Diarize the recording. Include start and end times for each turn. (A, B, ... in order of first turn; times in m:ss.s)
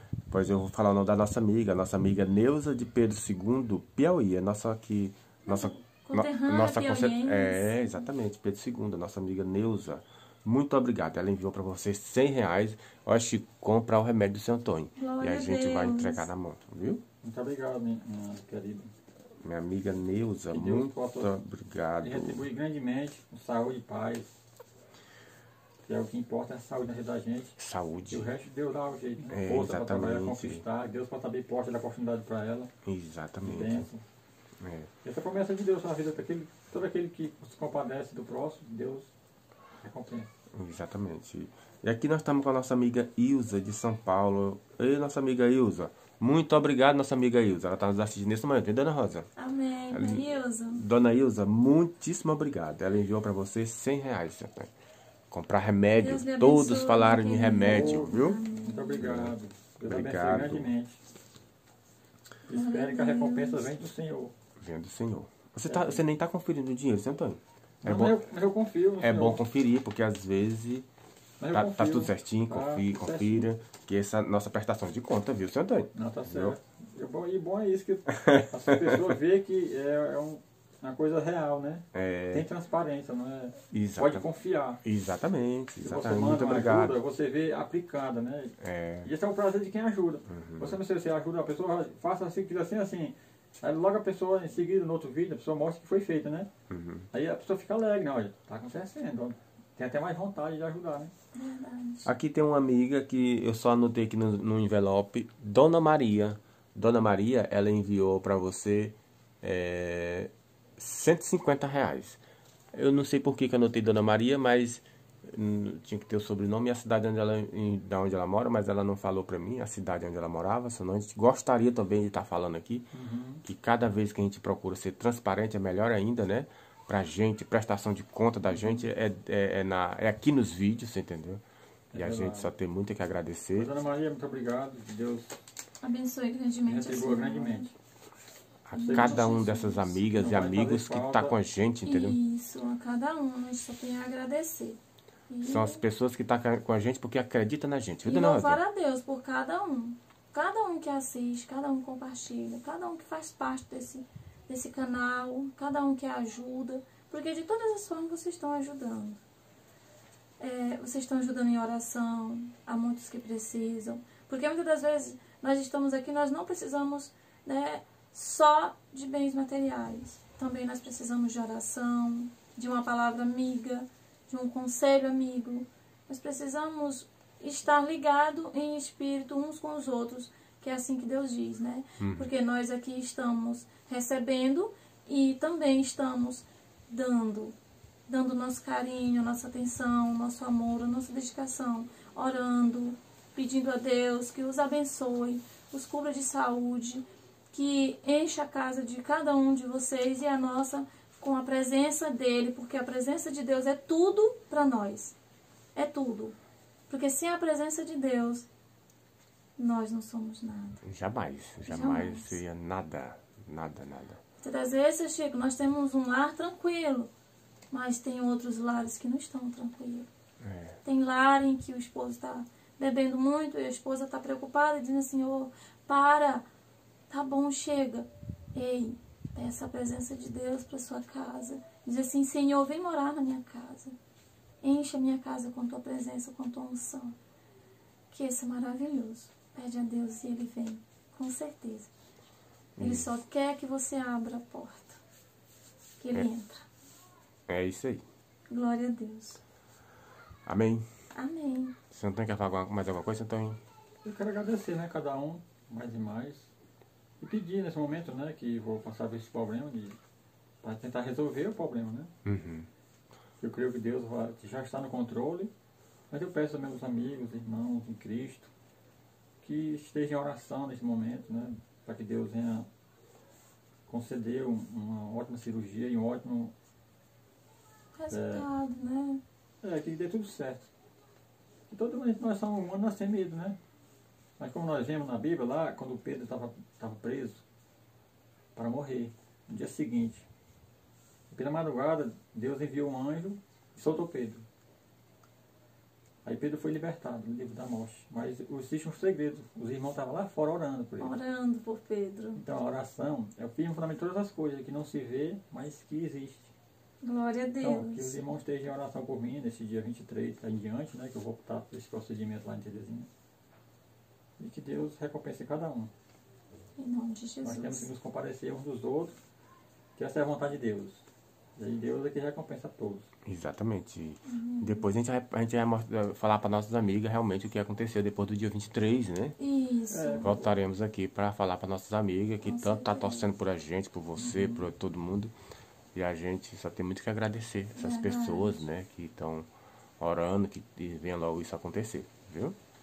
0:00.3-0:17.0 A
0:05.4-0:08.1 B
0:15.0-0:16.3 B
0:17.2-0:18.9 C
0:19.4-0:22.5 A
0:20.5-0:21.3 C
0:22.0-0:24.3 C
0:25.9-0:27.6 C
0:27.6-0:28.3 A
0:28.1-0:32.7 C
0:29.3-0:30.6 A
0:32.8-0:33.9 A
0:33.4-0:34.0 C
0:34.6-0:34.9 A
0:35.0-0:39.1 C
0:39.8-0:40.3 C
0:40.5-0:49.3 A
0:49.4-0:50.8 B
0:49.9-0:54.7 A
0:55.3-0:58.4 A
0:56.0-0:59.1 B
0:57.7-1:01.0 C
0:59.0-1:00.7 A
1:02.5-1:04.3 C
1:02.5-1:03.8 B
1:04.6-1:08.2 A
1:05.7-1:06.0 C
1:07.8-1:09.4 C
1:09.0-1:10.9 A
1:11.4-1:13.5 C
1:11.5-1:16.6 A
1:15.9-1:24.8 C
1:18.1-1:19.1 A
1:21.9-1:22.5 A
1:23.7-1:24.2 A
1:24.8-1:27.0 A
1:25.8-1:36.5 C
1:28.6-1:29.1 A
1:30.3-1:30.8 A
1:36.7-1:37.1 A
1:37.1-1:41.1 C
1:41.3-1:42.1 B
1:42.0-1:52.2 A
1:52.7-2:02.9 A
2:02.9-2:03.4 C
2:03.4-2:11.4 A
2:08.5-2:08.8 C
2:11.9-2:12.5 C
2:11.9-2:13.7 A
2:13.6-2:15.4 C
2:15.8-2:17.7 B
2:16.7-2:17.7 C
2:18.6-2:22.2 A
2:18.7-2:20.0 B
2:18.9-2:19.5 C
2:20.1-2:21.4 C
2:21.8-2:25.8 B
2:25.4-2:28.6 A
2:28.0-2:39.2 B
2:40.4-3:07.6 B
3:02.0-3:02.3 A
3:08.1-3:25.2 B
3:25.8-3:26.4 B
3:26.9-3:28.5 B
3:29.6-3:30.8 B
3:30.8-3:34.2 A
3:31.6-3:32.4 B
3:34.4-3:37.1 B
3:37.7-3:40.1 B
3:40.4-3:40.8 A
3:40.8-3:46.5 B
3:47.1-3:54.0 B
3:54.6-3:57.2 B
3:58.1-4:01.9 B
4:02.8-4:03.2 A
4:02.8-4:05.0 B
4:06.0-4:06.7 B
4:07.5-4:08.0 A
4:08.5-4:09.4 B
4:10.4-4:10.9 A
4:11.1-4:11.8 B
4:11.9-4:13.6 A
4:14.0-4:16.5 C
4:17.2-4:20.0 C
4:20.6-4:22.1 C
4:22.2-4:22.7 A
4:23.4-4:25.5 C
4:26.1-4:28.5 C
4:29.4-4:32.7 C
4:33.9-4:36.5 C
4:37.9-4:39.2 B
4:38.1-4:38.5 C
4:39.6-4:40.7 C
4:41.7-4:43.6 C
4:44.4-4:47.4 C
4:48.6-4:50.3 C
4:51.3-4:54.4 C
4:56.2-5:01.2 C
5:01.0-5:02.4 B
5:02.4-5:06.5 C
5:07.0-5:08.2 B
5:07.6-5:13.1 C
5:14.4-5:15.9 C
5:16.8-5:17.9 B
5:17.4-5:19.2 C
5:20.0-5:21.0 C
5:21.6-5:23.1 C
5:23.2-5:29.4 A
5:24.2-5:24.9 B
5:29.4-5:30.3 B
5:29.9-5:30.6 C
5:30.2-5:35.3 A
5:32.4-5:33.3 B
5:34.2-5:34.7 C
5:35.9-5:39.5 A
5:37.8-5:38.7 B
5:40.0-5:42.6 A